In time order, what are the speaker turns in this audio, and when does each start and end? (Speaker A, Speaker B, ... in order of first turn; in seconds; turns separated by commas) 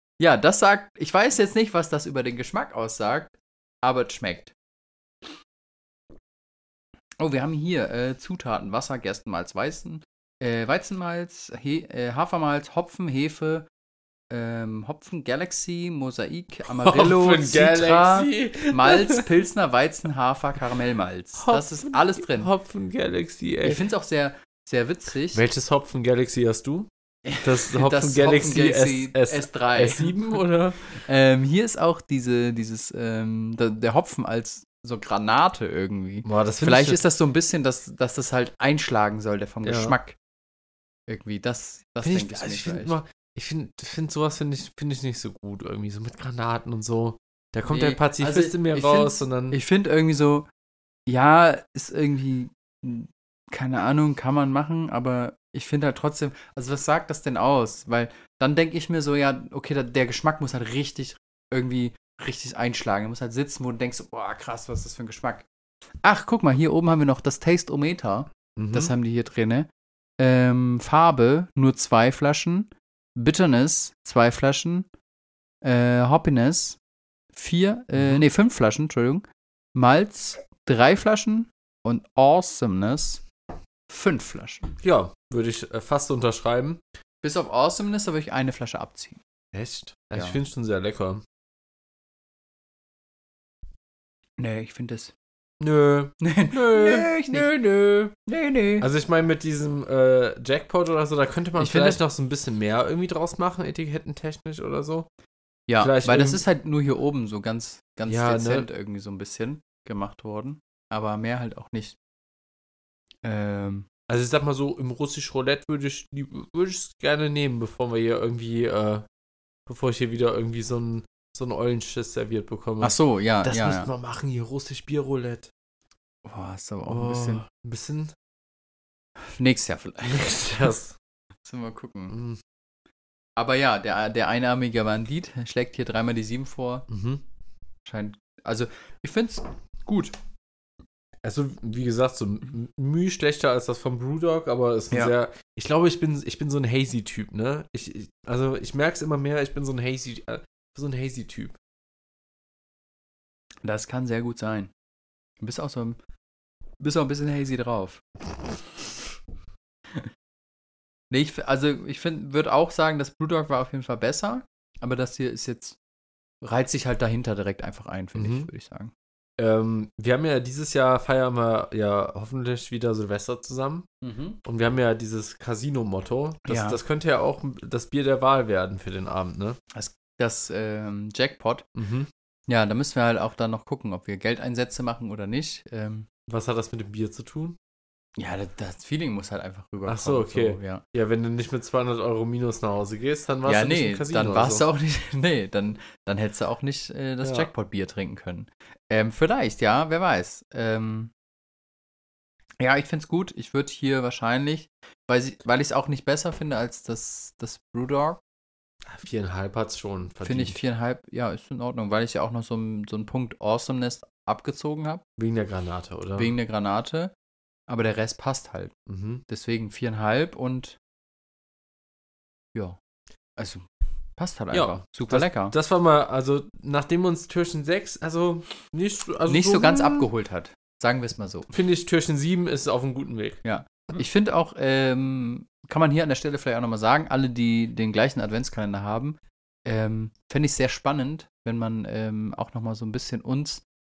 Speaker A: 0.2-4.5, Speaker A: 7.2-13.7, Speaker A: 14.3-22.5, Speaker B: 16.6-19.3, Speaker B: 21.4-23.8, Speaker A: 23.6-25.4, Speaker B: 25.3-26.9, Speaker A: 27.2-30.1, Speaker B: 27.4-30.9, Speaker A: 30.9-40.2, Speaker B: 36.2-37.0, Speaker B: 39.6-40.0, Speaker A: 41.1-43.0, Speaker B: 42.0-49.6, Speaker A: 47.7-50.5, Speaker A: 51.1-65.5, Speaker A: 66.0-69.7, Speaker B: 68.6-68.9, Speaker A: 70.2-74.8, Speaker A: 75.6-76.8, Speaker A: 77.3-83.2, Speaker B: 77.9-78.3, Speaker A: 83.9-84.7, Speaker B: 84.8-86.8, Speaker A: 87.2-89.2, Speaker B: 89.5-91.2, Speaker A: 90.1-90.4, Speaker A: 94.4-95.1, Speaker B: 95.6-98.1, Speaker A: 96.2-97.5, Speaker A: 98.2-98.8, Speaker B: 98.8-105.1, Speaker A: 101.6-102.0, Speaker A: 105.7-112.0, Speaker B: 105.8-106.4, Speaker B: 108.1-108.7, Speaker A: 113.2-113.9, Speaker B: 114.1-119.0, Speaker B: 119.7-125.5, Speaker A: 122.8-123.9, Speaker A: 126.2-127.4, Speaker B: 126.9-128.1, Speaker A: 129.2-130.7, Speaker B: 130.0-130.9, Speaker A: 131.4-132.2, Speaker B: 132.1-132.4, Speaker A: 133.4-136.8, Speaker B: 136.9-137.2, Speaker A: 137.8-140.1, Speaker B: 141.2-151.6, Speaker A: 153.6-154.7, Speaker A: 155.4-156.0, Speaker A: 156.8-158.0, Speaker A: 161.1-165.8, Speaker A: 166.4-168.9, Speaker B: 168.1-168.5, Speaker B: 169.4-173.8, Speaker A: 174.0-174.4, Speaker B: 174.4-179.6, Speaker A: 176.4-176.8, Speaker A: 179.7-181.6, Speaker B: 181.8-182.1, Speaker A: 182.5-186.1, Speaker B: 186.3-187.6, Speaker A: 188.2-190.8, Speaker B: 189.9-194.6, Speaker A: 193.4-201.1, Speaker B: 197.2-197.5, Speaker A: 202.6-208.2, Speaker B: 208.9-210.6, Speaker A: 210.2-215.0, Speaker B: 215.2-216.3, Speaker A: 216.2-217.1, Speaker A: 217.7-218.7, Speaker B: 218.9-219.2, Speaker A: 219.3-220.8, Speaker A: 223.4-223.6, Speaker A: 224.2-225.5, Speaker B: 224.5-230.1, Speaker A: 229.2-231.5, Speaker B: 231.5-233.4, Speaker A: 233.4-243.6